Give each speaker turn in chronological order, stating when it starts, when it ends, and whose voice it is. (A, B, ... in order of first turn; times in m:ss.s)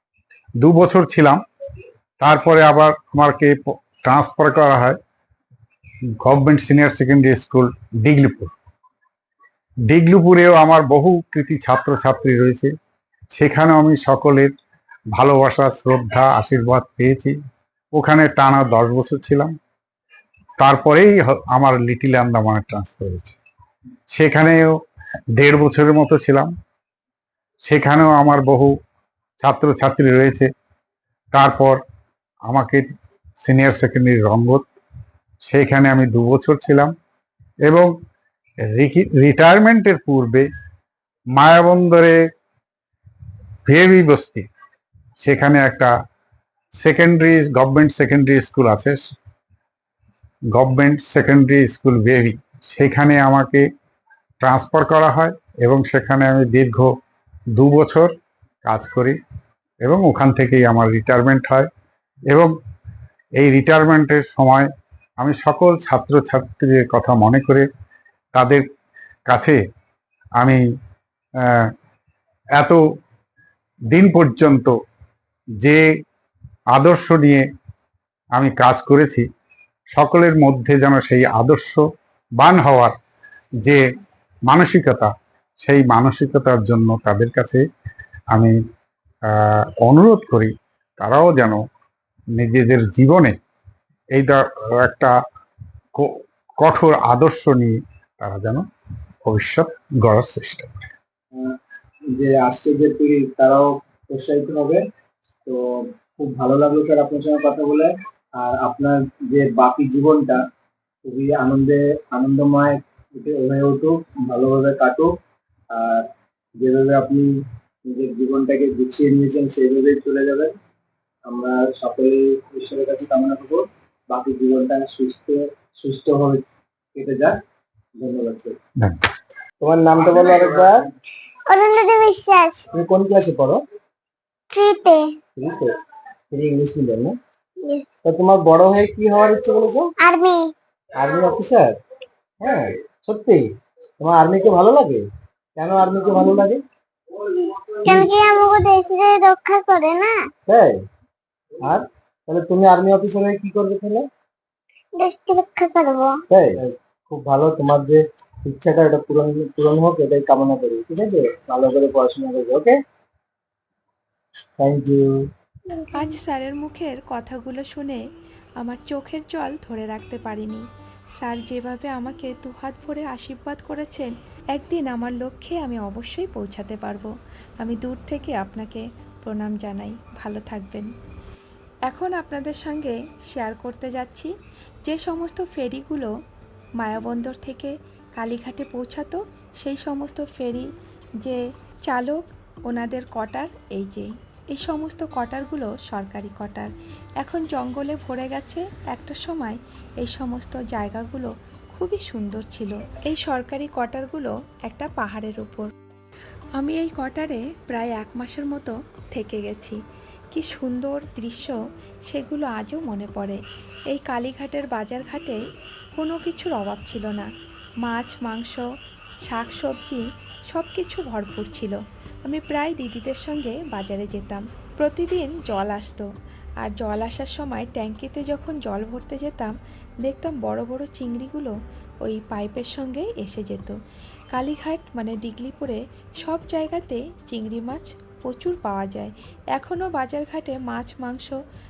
0:00.6-0:01.4 A
0:02.2-0:05.0 A
0:06.2-0:08.5 A
0:09.9-0:12.7 A
0:13.3-0:14.5 A
0:15.1-0:17.4 A
0:18.0-0:19.5 A
0:20.6-0:23.4 A
0:24.1-0:24.8 A
0:25.4-0:26.5 A
0:27.6-0:28.7 A
0:29.4-0:30.5 A
0:31.3-0:31.8 A
0:32.5-0:32.9 A
0:33.4-0:34.7 A
0:35.5-0:36.9 A
0:38.7-0:40.5 A
0:41.4-0:42.2 A
0:43.7-0:44.5 A
0:45.2-0:45.9 A
0:46.8-0:49.1 A
0:50.5-0:53.7 A
0:54.4-0:56.9 A
0:57.5-0:58.1 A
0:58.7-0:59.2 A
0:59.8-1:01.7 A
1:03.4-1:04.7 A
1:05.2-1:07.7 A
1:08.3-1:08.6 A
1:09.3-1:09.6 A
1:11.4-1:11.7 A
1:13.9-1:14.7 A
1:16.7-1:17.4 A
1:18.4-1:19.2 A
1:19.9-1:21.8 A
1:22.4-1:22.9 A
1:24.5-1:25.1 A
1:25.6-1:27.6 A
1:29.3-1:31.6 A
1:32.4-1:33.4 A
1:34.1-1:35.1 A
1:36.0-1:38.6 A
1:39.2-1:40.9 A
1:42.2-1:44.8 B
1:46.2-1:50.4 B
1:51.0-1:55.1 B
1:55.7-1:56.1 B
1:56.6-1:57.3 B
1:57.9-2:00.5 B
2:01.3-2:06.4 B
2:07.0-2:07.4 B
2:08.0-2:08.6 B
2:08.8-2:09.1 A
2:09.6-2:10.8 B
2:11.5-2:12.7 C
2:12.7-2:13.6 B
2:14.5-2:15.2 C
2:15.4-2:15.7 B
2:16.3-2:17.2 B
2:17.6-2:17.9 C
2:18.0-2:19.9 B
2:20.0-2:20.5 C
2:21.0-2:21.8 B
2:22.4-2:23.4 B
2:24.0-2:25.0 B
2:25.6-2:26.6 B
2:27.3-2:30.3 C
2:30.5-2:30.8 B
2:31.6-2:34.1 B
2:35.0-2:36.2 C
2:36.3-2:42.8 B
2:44.6-2:45.1 B
2:45.9-2:48.0 D
2:48.6-2:50.6 D
2:51.2-3:00.9 D
3:01.9-3:04.3 D
3:04.8-3:06.1 D
3:06.8-3:10.7 D
3:11.2-3:25.7 D
3:26.6-3:29.8 D
3:30.3-3:33.4 D
3:33.9-3:35.4 D
3:36.0-3:37.3 D
3:37.8-3:38.6 D
3:39.3-3:46.1 D
3:46.6-3:49.5 D
3:50.0-3:53.8 D
3:54.3-4:01.4 D